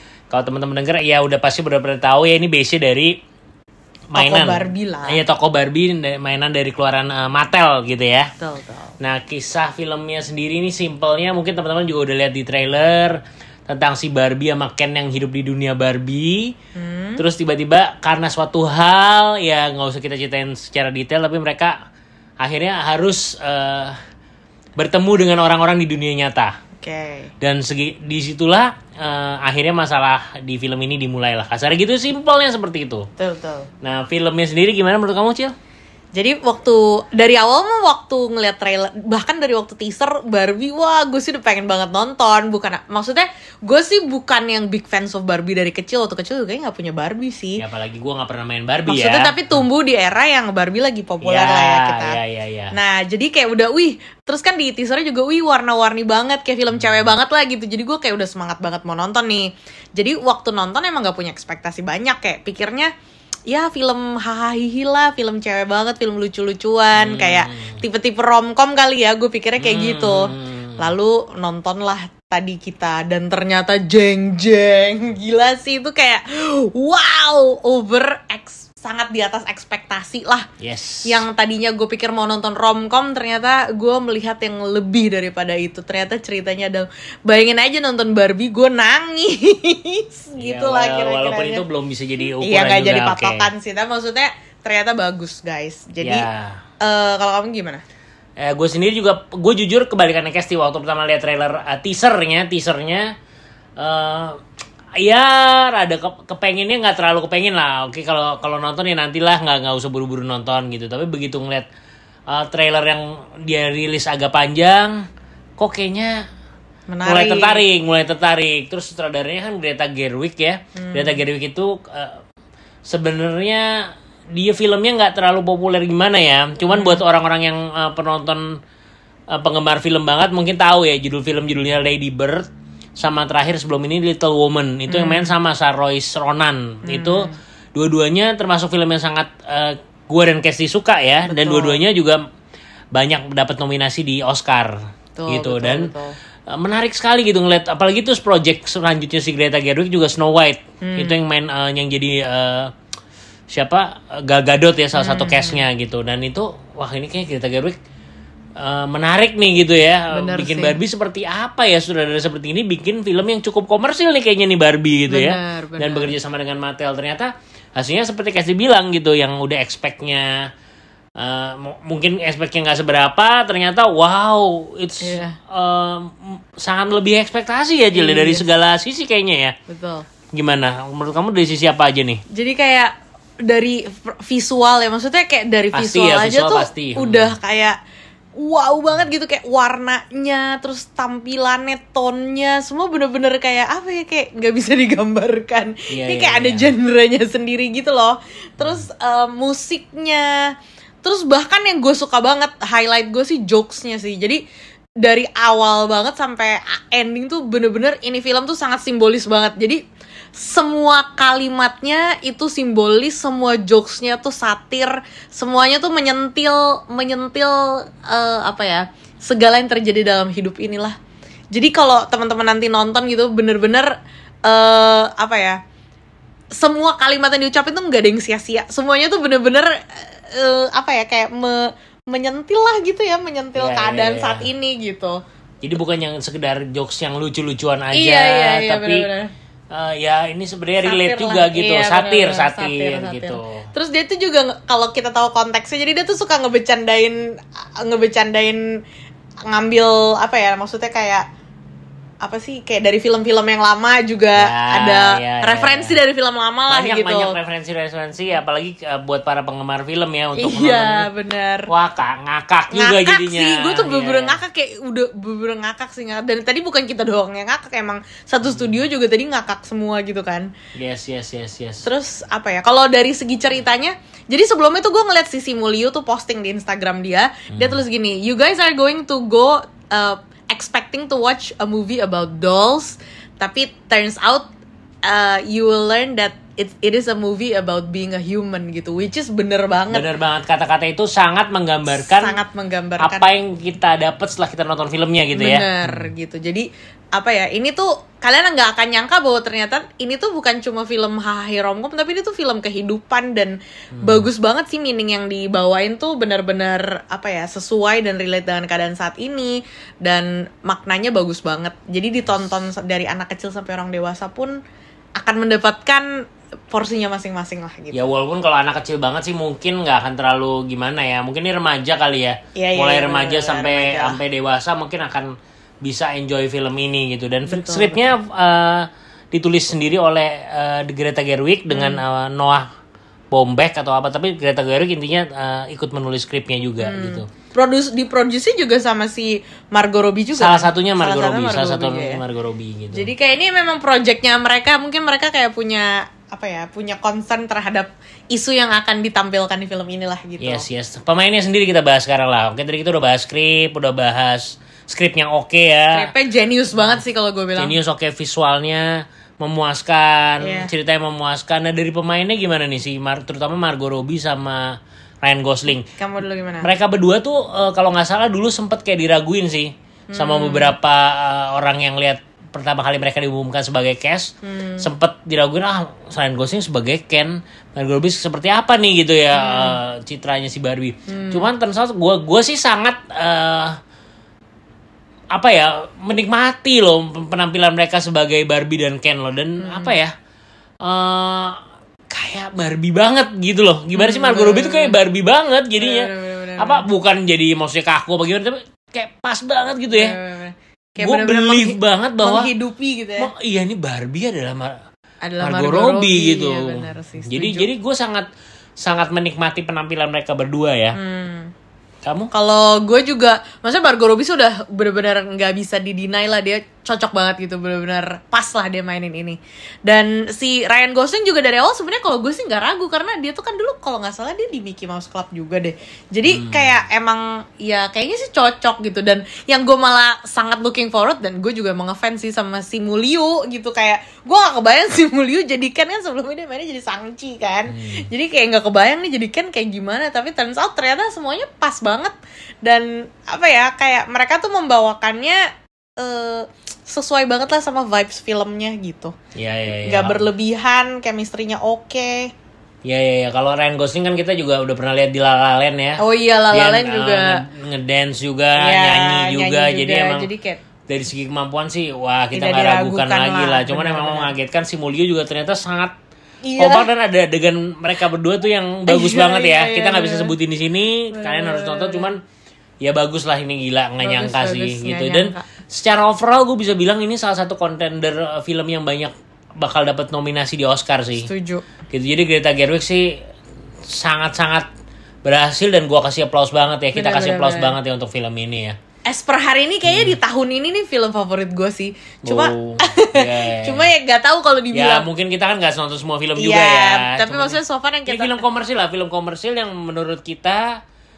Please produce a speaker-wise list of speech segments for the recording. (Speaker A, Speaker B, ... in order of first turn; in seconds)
Speaker A: 0.3-3.2, 4.1-8.3, 9.0-16.5, 17.2-21.8, 22.4-24.0, 24.8-26.6, 27.4-33.1, 33.8-35.5, 47.6-49.3, 51.2-52.7, 66.9-67.8, 69.6-70.9, 80.6-81.2, 90.4-93.5, 96.0-96.6, 98.4-103.1, 103.8-104.4, 105.0-111.7, 112.3-115.0, 115.6-116.2, 117.0-122.2, 122.8-128.4, 129.3-142.2, 142.9-144.8, 145.3-145.9, 146.5-152.7, 153.5-157.8, 158.6-170.5, 171.2-179.6, 180.3-182.2, 185.7-187.3, 195.9-196.7, 233.5-234.5, 235.6-239.1, 239.7-243.7, 254.3-256.0, 256.7-261.1, 261.7-264.4, 268.4-268.8, 270.7-271.9, 277.5-277.8, 289.9-292.4, 293.0-296.1, 303.9-304.3, 317.9-325.3, 325.8-332.7, 333.3-337.3, 340.3-343.1, 350.4-356.1, 357.6-365.9, 366.6-383.8, 385.3-390.1, 390.8-391.6, 392.1-400.1, 401.0-402.5, 403.2-404.8, 405.4-408.3, 408.8-411.0, 412.0-412.3, 426.3-426.8, 437.7-438.1, 449.3-450.2, 452.8-460.3, 460.9-465.9, 466.6-472.2, 472.8-481.3, 481.9-483.2, 483.9-484.7, 485.2-488.8, 489.8-490.2, 492.2-493.9, 494.7-500.8
Speaker B: 4.1-5.2, 8.4-8.9, 16.8-17.2, 26.8-27.3, 33.2-33.7, 36.1-47.6, 48.9-52.1, 52.7-62.9, 63.5-80.5, 81.0-91.6, 92.3-96.2, 96.8-97.8, 116.9-117.7, 120.8-121.2, 126.7-127.0, 134.9-135.3, 136.8-137.4, 141.3-141.8, 145.2-146.2, 150.8-151.2, 154.9-155.7, 160.1-160.8, 165.1-166.1, 175.0-175.4, 177.9-178.4, 179.7-180.1, 182.3-187.8, 188.3-200.5, 201.0-204.4, 205.0-209.8, 210.3-221.0, 221.5-223.9, 224.5-225.6, 226.6-235.2, 237.9-239.3, 240.8-248.6, 249.5-251.2, 252.2-257.4, 260.3-261.7, 262.7-270.5, 271.8-284.5, 285.1-290.1, 291.9-293.3, 295.3-314.5, 315.2-316.1, 316.7-318.0, 322.5-324.2, 327.5-328.1, 331.7-332.0, 336.8-342.2, 342.9-350.6, 355.9-357.8, 360.4-360.7, 365.9-366.7, 370.1-370.7, 374.4-374.9, 379.3-379.8, 381.1-381.5, 389.6-389.9, 393.9-395.0, 395.8-396.9, 399.9-403.3, 405.2-407.7, 410.9-411.5, 412.3-445.4, 446.0-449.1, 449.8-452.3, 456.0-457.4, 458.6-460.6, 462.3-464.3, 466.4-466.9, 468.9-470.3, 471.1-472.1, 474.0-475.4, 481.2-481.7, 486.9-487.8, 489.1-495.1, 496.4-498.4